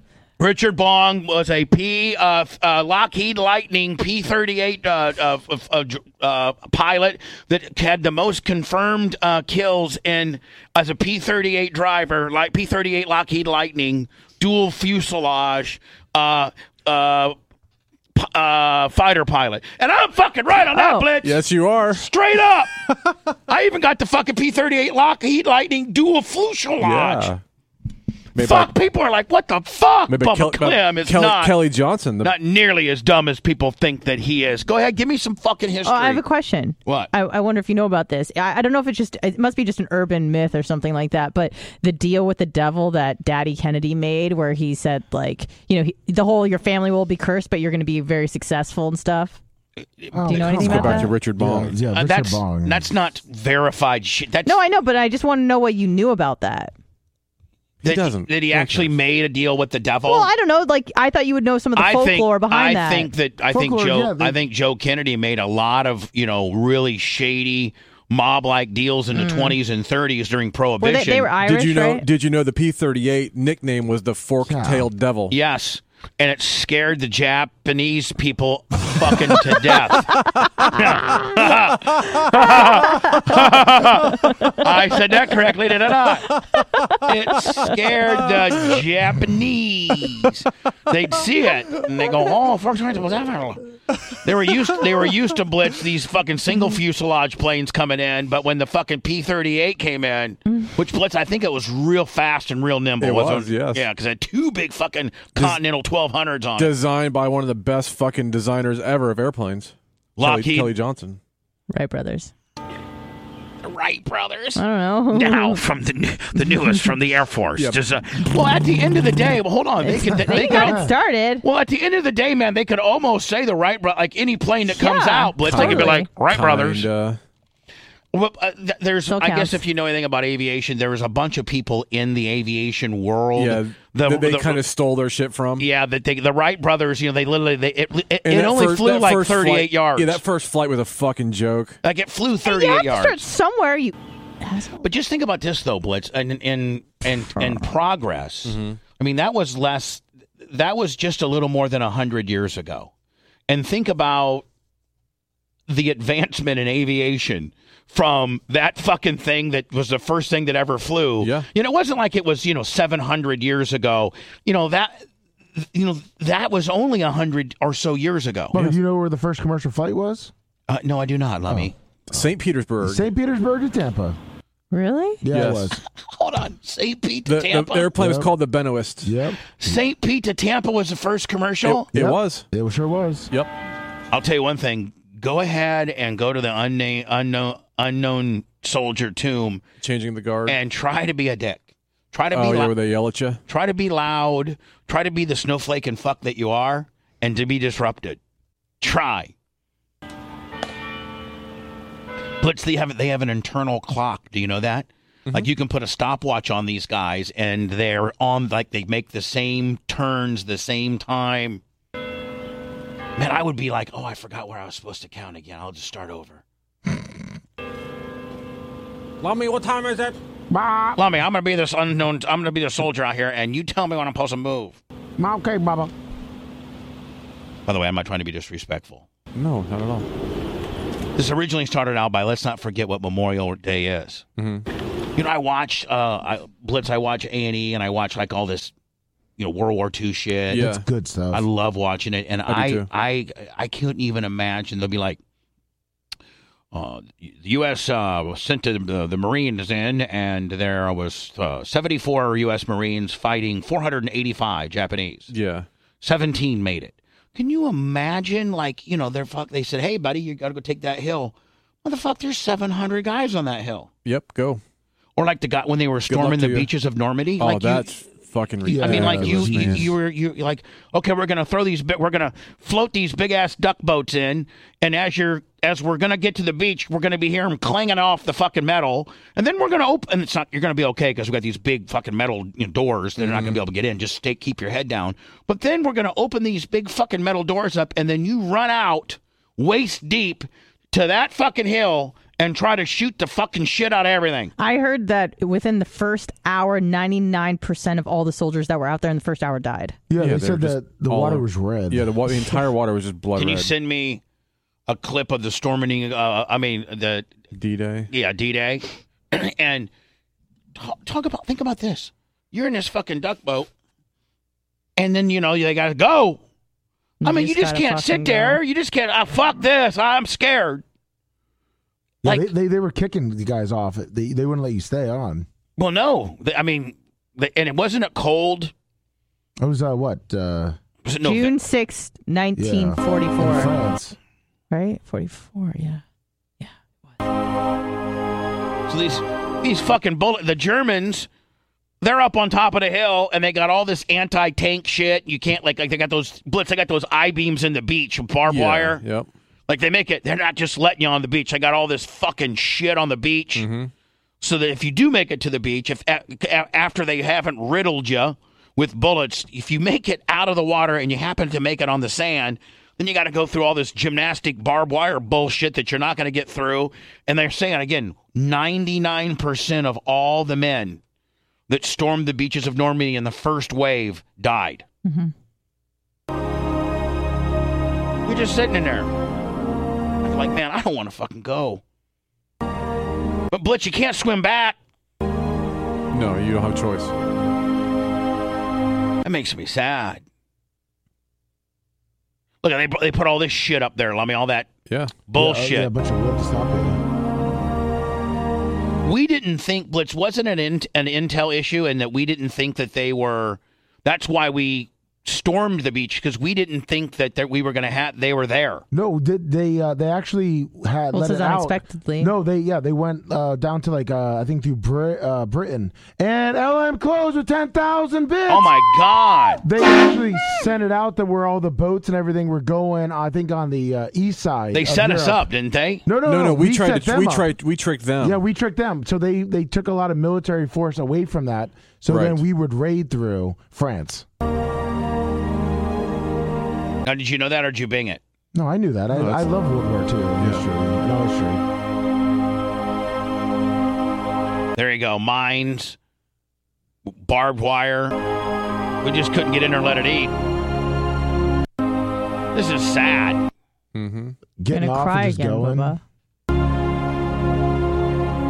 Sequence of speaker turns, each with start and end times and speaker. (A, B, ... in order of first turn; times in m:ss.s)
0:00.4-0:17.3 A
0:18.1-0:21.4 A
0:20.7-0:21.1 B
0:21.2-0:22.0 C
0:21.9-0:22.7 A
0:23.5-0:27.3 A
0:26.8-0:27.4 C
0:28.3-0:28.7 C
0:28.3-0:31.6 A
0:30.1-0:32.3 C
0:32.2-0:36.2 A
0:35.8-0:49.4 B
0:36.8-0:37.1 A
0:50.0-0:51.0 A
0:50.1-0:52.9 D
0:50.3-0:51.1 B
0:50.5-0:51.7 C
0:51.9-0:54.6 A
0:54.4-0:56.7 B
0:57.8-0:58.9 C
0:57.8-1:00.3 A
1:00.0-1:03.1 B
1:01.8-1:11.3 A
1:03.5-1:04.4 D
1:09.1-1:09.6 B
1:10.8-1:12.1 B
1:11.4-1:15.3 C
1:14.4-1:14.9 D
1:15.3-1:20.1 A
1:20.7-1:26.3 A
1:22.3-1:23.2 B
1:27.0-1:33.6 A
1:34.1-1:46.7 A
1:43.0-1:43.9 C
1:46.6-1:51.2 C
1:50.2-1:50.7 A
1:51.7-1:52.3 B
1:53.6-1:54.6 A
1:54.6-1:55.6 B
1:55.1-2:06.9 A
1:56.4-1:56.7 B
1:59.8-2:01.4 B
2:00.3-2:00.9 D
2:04.7-2:06.1 B
2:05.5-2:07.2 C
2:08.1-2:14.6 A
2:09.1-2:09.6 B
2:13.4-2:15.6 C
2:15.6-2:20.2 A
2:18.2-2:21.8 C
2:21.8-2:23.2 A
2:22.4-2:24.8 B
2:24.8-2:32.9 A
2:27.3-2:27.7 B
2:28.4-2:28.8 C
2:33.5-2:34.4 A
2:35.7-2:45.0 A
2:41.2-2:41.5 C
2:45.6-2:48.6 A
2:48.5-2:50.3 D
2:50.7-2:51.7 A
2:51.5-2:52.3 D
2:52.1-2:53.0 C
2:52.8-2:54.2 D
2:54.7-2:55.2 B
2:55.2-2:55.8 D
2:55.3-2:55.7 C
2:56.0-2:57.9 A
2:57.2-2:59.1 C
2:58.0-2:58.3 D
2:59.0-2:59.8 D
2:59.6-3:01.8 A
3:01.6-3:02.4 C
3:01.9-3:03.3 D
3:04.1-3:09.6 A
3:09.8-3:10.6 C
3:10.5-3:12.7 A
3:12.3-3:13.4 C
3:13.5-3:18.2 A
3:18.8-3:19.3 A
3:22.4-3:31.6 A
3:33.2-3:36.4 A
3:39.2-3:40.2 C
3:40.5-3:41.0 D
3:41.0-3:44.8 A
3:45.2-3:45.9 D
3:47.7-3:49.0 A
3:49.3-3:50.1 C
3:51.2-3:54.2 A
3:54.4-3:54.6 C
3:55.2-3:58.7 A
3:59.4-4:00.7 A
4:00.5-4:00.8 C
4:00.5-4:01.4 D
4:01.3-4:05.2 A
4:02.4-4:02.9 C
4:06.7-4:15.3 A
4:15.3-4:15.7 C
4:16.0-4:23.9 A
4:24.0-4:24.6 C
4:25.2-4:27.8 A
4:26.1-4:26.7 C
4:27.4-4:29.9 C
4:28.6-4:29.9 D
4:28.7-4:54.5 A
4:43.2-4:43.6 C
4:54.6-5:00.0 B
5:00.1-5:02.3 D
5:00.2-5:03.7 C
5:03.4-5:04.2 A
5:04.9-5:07.3 A
5:07.5-5:08.1 C
5:08.1-5:09.9 A
5:10.8-5:13.7 A
5:15.0-5:16.4 A
5:17.2-5:18.6 B
5:17.2-5:20.8 A
5:22.2-5:22.5 A
5:22.2-5:25.5 D
5:25.8-5:28.7 A
5:29.6-5:30.8 D
5:31.0-5:31.6 A
5:31.2-5:33.7 B
5:32.6-5:34.2 D
5:34.7-5:36.0 B
5:38.9-5:41.3 A
5:42.0-5:49.0 A
5:48.5-5:49.3 C
5:49.7-5:53.7 A
5:53.6-5:53.9 C
5:54.4-6:11.0 A
6:11.7-6:14.8 A
6:15.0-6:15.3 B
6:18.2-6:19.1 A
6:20.2-6:21.8 A
6:23.5-6:24.8 A
6:26.1-6:27.1 C
6:29.2-6:30.2 A
6:32.6-6:34.7 A
6:34.9-6:35.2 C
6:35.3-6:35.9 A
6:35.3-6:37.0 D
6:39.0-6:48.8 A
6:48.9-6:58.8 D
6:51.1-6:52.3 B
6:58.5-6:59.6 A
6:59.6-7:05.5 D
7:04.7-7:06.0 A
7:06.0-7:07.5 D
7:06.2-7:08.4 C
7:08.2-7:14.2 D
7:12.1-7:12.4 C
7:17.0-7:18.2 A
7:18.5-7:21.6 D
7:19.1-7:19.5 C
7:20.4-7:20.6 C
7:24.8-7:26.0 A
7:27.1-7:28.2 A
7:29.0-7:30.3 A
7:32.5-7:33.4 A
7:33.9-7:34.4 C
7:34.6-7:36.0 D
7:34.7-7:36.0 B